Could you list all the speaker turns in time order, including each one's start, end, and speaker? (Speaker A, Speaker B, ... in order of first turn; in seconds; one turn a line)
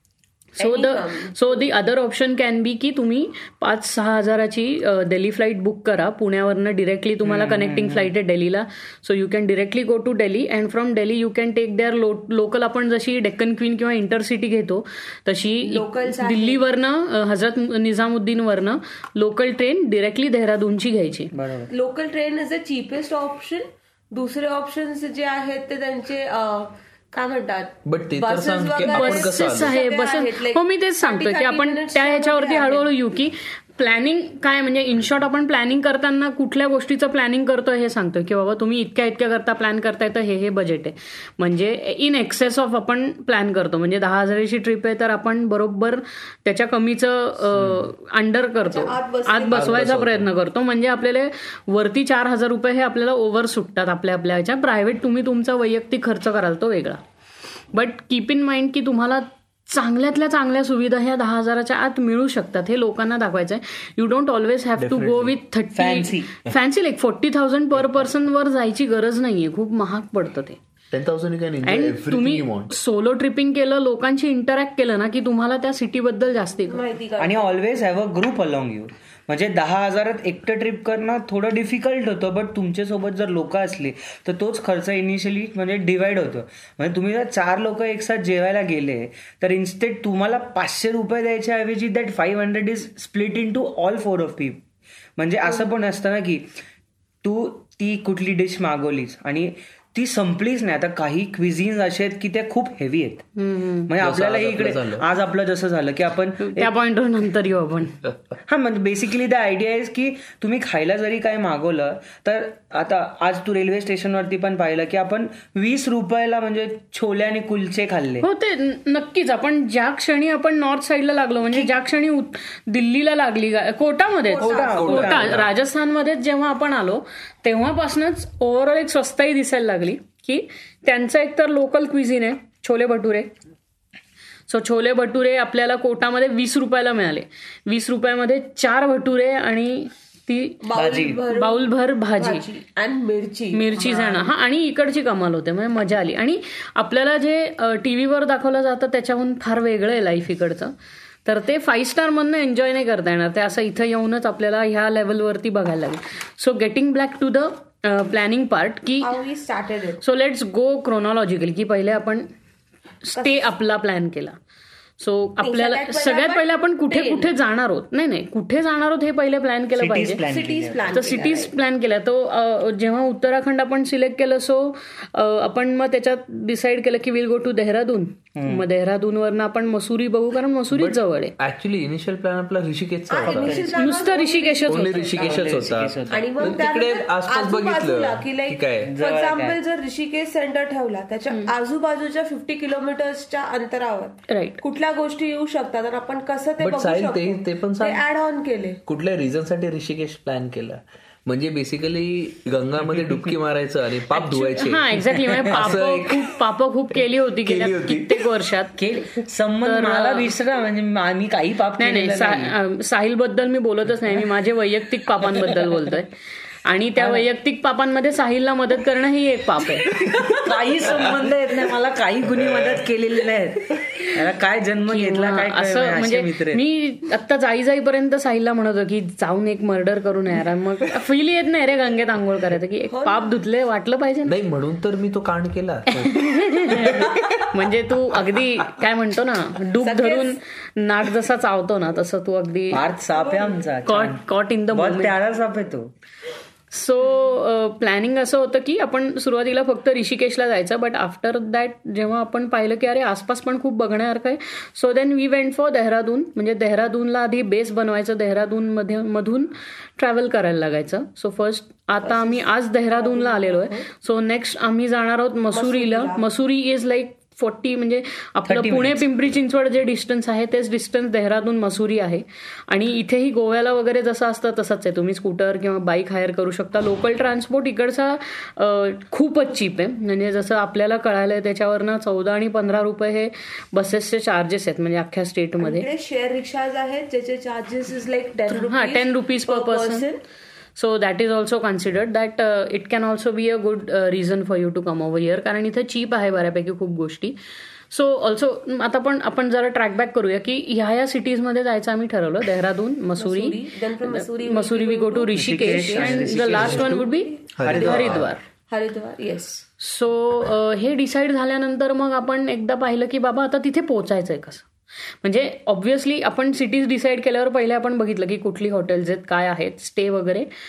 Speaker A: 0.6-21.3
Speaker B: 0.6-1.8
Speaker C: 7.2-8.1
Speaker B: 15.6-16.6
Speaker C: 21.3-21.7
Speaker B: 21.7-32.9
Speaker D: 27.9-29.7
Speaker A: 28.9-57.0
Speaker D: 47.6-47.9
Speaker B: 48.7-49.9
Speaker D: 49.5-50.3
Speaker A: 57.7-70.6
Speaker D: 64.8-65.4
Speaker C: 65.7-66.3
Speaker D: 70.9-72.7
Speaker A: 71.6-76.8
Speaker B: 76.7-77.5
Speaker C: 77.2-94.6
Speaker C: 95.2-96.5
Speaker C: 97.2-103.3
Speaker A: 103.4-103.9
Speaker C: 103.9-106.7
Speaker D: 104.0-105.0
Speaker A: 106.4-108.0
Speaker C: 108.5-118.3
Speaker A: 118.2-133.3
Speaker B: 124.2-125.1
Speaker C: 124.4-125.5
Speaker D: 124.5-125.5
Speaker A: 134.5-140.6
Speaker B: 140.6-144.3
Speaker C: 140.7-141.2
Speaker A: 141.3-142.4
Speaker A: 143.5-150.7
Speaker A: 151.2-159.1
Speaker B: 159.0-160.0
Speaker A: 160.0-162.3
Speaker A: 163.0-164.4
Speaker B: 163.2-163.5
Speaker A: 165.0-170.2
Speaker B: 165.4-167.4
Speaker C: 169.8-171.0
Speaker B: 170.2-171.5
Speaker A: 170.9-181.3
Speaker C: 178.4-178.6
Speaker D: 180.7-183.7
Speaker B: 183.1-185.4
Speaker C: 183.2-183.8
Speaker A: 183.8-185.2
Speaker D: 184.7-188.9
Speaker C: 185.1-186.6
Speaker B: 186.1-198.8
Speaker C: 188.8-189.6
Speaker A: 194.3-194.6
Speaker D: 196.6-198.0
Speaker D: 198.9-206.4
Speaker A: 204.2-208.8
Speaker C: 205.5-205.8
Speaker D: 207.4-208.3
Speaker C: 208.8-212.6
Speaker A: 209.6-210.3
Speaker A: 211.8-220.0
Speaker D: 215.4-215.8
Speaker C: 217.0-217.2
Speaker D: 219.9-221.1
Speaker C: 220.2-226.6
Speaker A: 224.9-234.3
Speaker B: 232.9-233.3
Speaker D: 234.3-237.5
Speaker A: 235.9-242.8
Speaker B: 239.8-240.4
Speaker C: 242.7-245.9
Speaker B: 243.2-243.7
Speaker A: 243.8-245.2
Speaker A: 246.7-285.9
Speaker B: 262.0-263.9
Speaker B: 265.5-266.2
Speaker C: 268.5-269.0
Speaker B: 285.6-290.2
Speaker A: 288.5-290.1
Speaker A: 290.8-297.4
Speaker A: 297.9-308.4
Speaker B: 303.2-309.6
Speaker C: 305.4-307.0
Speaker D: 306.5-307.1
Speaker D: 307.6-308.3
Speaker C: 307.6-308.2
Speaker A: 309.8-314.7
Speaker A: 315.2-320.5